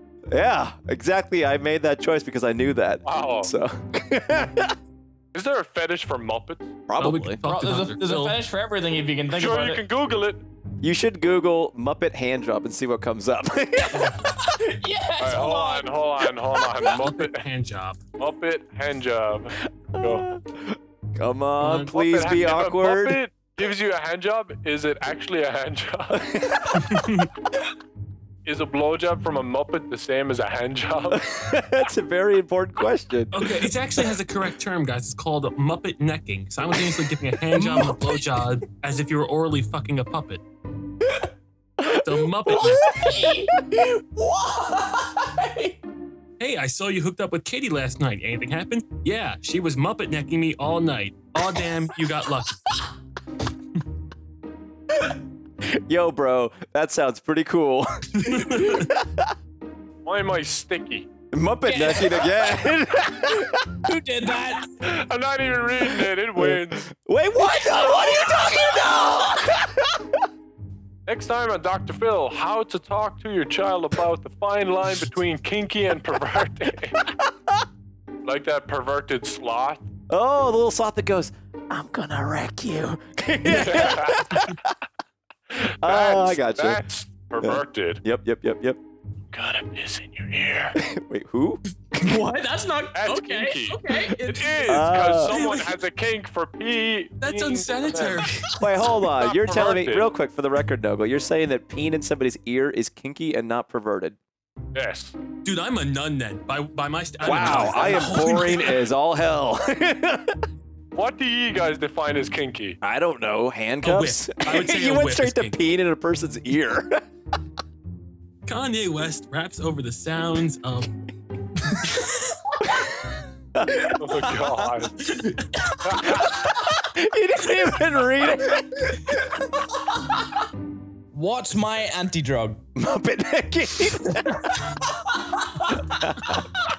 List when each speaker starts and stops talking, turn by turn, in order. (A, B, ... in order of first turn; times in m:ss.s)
0:00.3-0:04.7 A
0:03.0-0:03.5 B
0:05.3-0:06.8 B
0:06.9-0:07.4 A
0:07.0-0:08.4 C
0:07.4-0:09.8 D
0:09.3-0:10.4 B
0:10.8-0:14.3 A
0:14.0-0:16.0 D
0:15.2-0:17.4 B
0:16.7-0:18.0 C
0:18.2-0:20.2 B
0:19.9-0:23.2 A
0:21.6-0:21.9 C
0:21.9-0:26.7 B
0:26.3-0:26.6 A
0:26.7-0:27.3 C
0:28.4-0:31.2 B
0:31.2-0:33.7 A
0:33.3-0:40.4 C
0:37.6-0:38.0 D
0:41.8-0:43.0 C
0:42.5-0:45.8 D
0:46.4-0:52.8 C
0:55.6-0:59.3 A
0:58.2-0:58.9 C
1:00.0-1:01.1 B
1:01.3-1:03.7 A
1:01.6-1:02.6 D
1:03.8-1:04.7 D
1:04.8-1:06.9 B
1:06.4-1:10.2 A
1:07.5-1:09.4 D
1:11.1-1:17.0 B
1:18.2-1:19.8 B
1:20.1-1:24.7 A
1:23.5-1:24.3 B
1:25.6-1:28.0 B
1:25.8-1:26.8 A
1:27.4-1:28.8 A
1:29.3-1:30.8 B
1:30.7-1:31.6 A
1:31.9-1:34.9 D
1:32.9-1:38.3 B
1:34.7-1:35.3 A
1:35.3-1:35.8 C
1:37.2-1:38.5 C
1:38.3-1:38.6 D
1:38.6-1:44.2 A
1:39.0-1:40.1 B
1:44.7-1:45.2 B
1:45.4-1:48.9 C
1:47.2-1:50.4 A
1:47.3-1:48.0 B
1:50.9-1:52.8 B
1:52.8-1:57.0 A
1:53.8-1:55.6 C
1:58.4-2:01.0 C
2:03.5-2:03.9 A
2:04.0-2:05.0 B
2:05.9-2:06.2 B
2:06.2-2:09.3 A
2:11.1-2:12.6 D
2:12.8-2:14.7 A
2:15.9-2:16.4 A